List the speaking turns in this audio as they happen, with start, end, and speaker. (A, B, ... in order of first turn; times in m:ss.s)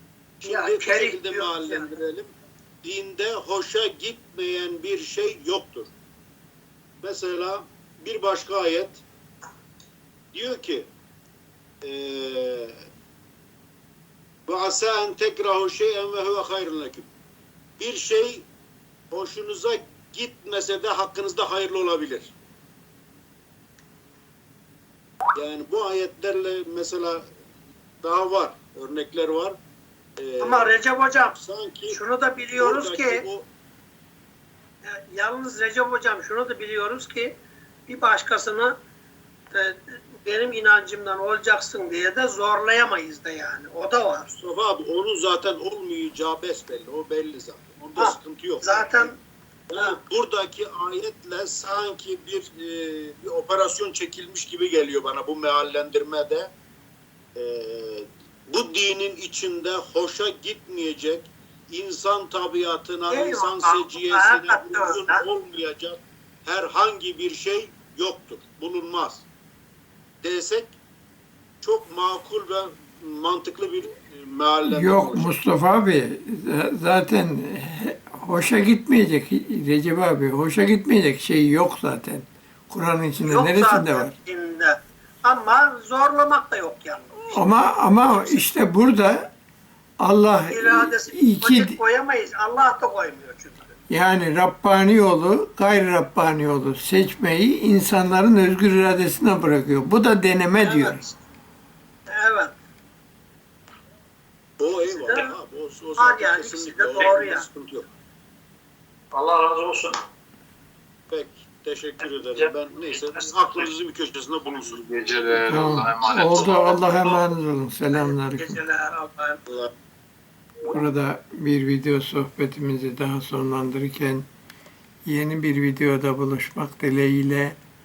0:00.4-0:02.3 A
0:00.4-0:01.9 B
0:02.8-0:05.9 A
0:07.0-0:09.0 A
0:10.3-0:10.9 A
0:11.8-0:12.8 A
0:14.5-0:17.1 A
0:17.8-0:18.5 A
0:19.1-0:22.3 A
0:25.4-0:27.3 A
0:28.0-0:29.6 A
0:30.2-0:32.0 A
0:30.4-0:31.4 B
0:31.9-0:33.2 B
0:32.6-0:33.5 A
0:34.8-0:37.3 B
0:37.9-0:38.7 B
0:39.5-0:44.3 B
0:44.4-0:49.1 A
0:48.0-0:49.1 B
0:49.7-0:56.5 A
0:57.4-1:09.2 A
1:03.1-1:05.2 B
1:10.2-1:10.8 A
1:11.6-1:15.3 A
1:14.6-1:24.1 C
1:23.2-1:27.4 B
1:27.3-1:29.3 C
1:28.1-1:28.4 B
1:30.0-1:31.8 C
1:30.5-1:33.7 B
1:33.9-1:41.0 C
1:40.6-1:41.1 B
1:42.1-1:42.5 B
1:44.6-1:47.9 A
1:45.0-1:45.3 B
1:46.0-1:47.4 B
1:49.1-1:50.0 D
1:51.1-1:54.8 A
1:52.0-1:53.7 D
1:54.7-1:56.8 E
1:55.4-1:58.6 C
1:57.9-1:59.4 B
2:00.7-2:04.3 C
2:05.0-2:07.6 C